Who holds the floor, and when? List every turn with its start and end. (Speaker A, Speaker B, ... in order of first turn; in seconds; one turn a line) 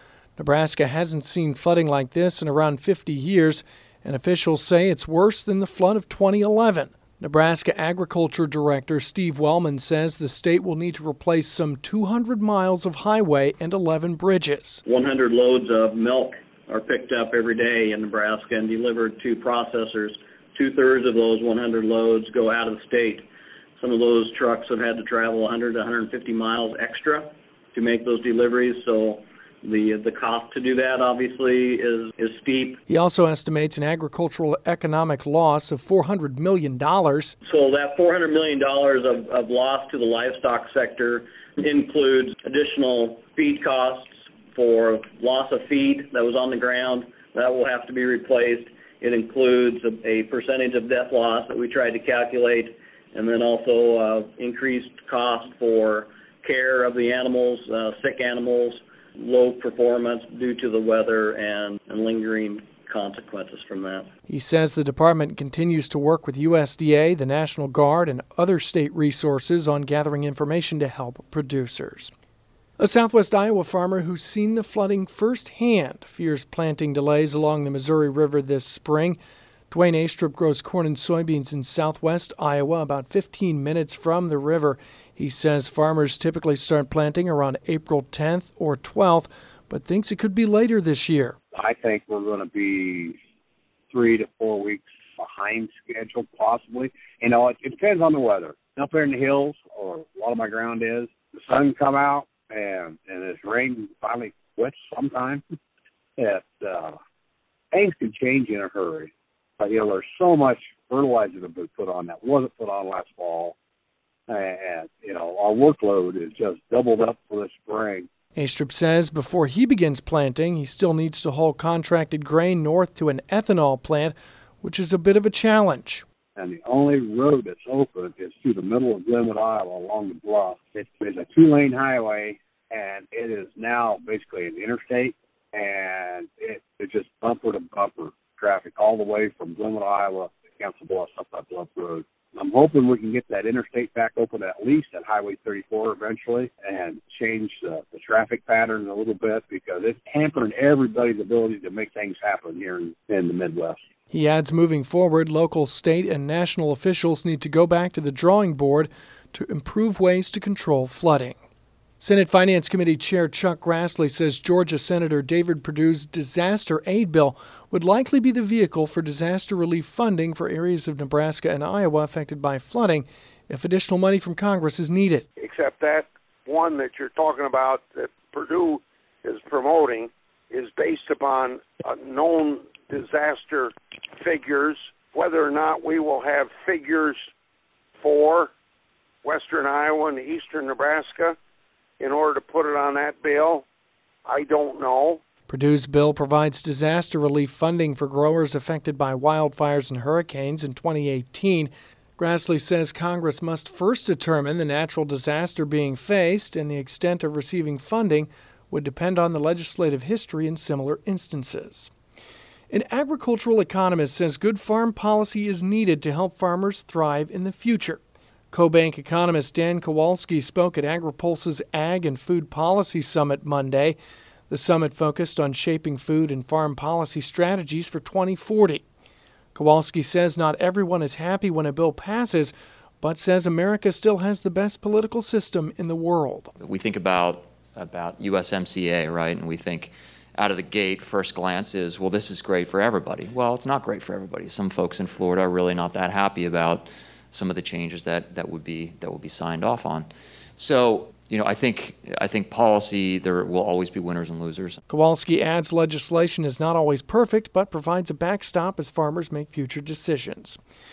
Speaker A: 0.4-14.8
Speaker B: 14.9-23.3
Speaker B: 23.8-32.8
Speaker A: 32.9-37.4
Speaker B: 37.5-64.1
Speaker A: 64.3-72.1
Speaker A: 72.8-79.2
Speaker A: 79.7-91.3
Speaker C: 91.5-93.2
Speaker C: 93.9-105.4
Speaker C: 106.2-107.0
Speaker C: 107.7-113.6
Speaker C: 114.3-118.1
Speaker A: 118.4-126.0
Speaker C: 126.4-153.8
Speaker A: 154.1-161.4
Speaker A: 162.0-175.3
Speaker D: 175.4-187.2
Speaker D: 188.0-188.5
Speaker D: 189.2-191.3
Speaker D: 192.0-193.6
Speaker D: 194.3-195.2
Speaker A: 195.5-211.9
Speaker A: 212.7-224.0
Speaker A: 224.5-228.8
Speaker A: 229.6-236.5
Speaker E: 236.6-254.8
Speaker A: 254.9-260.6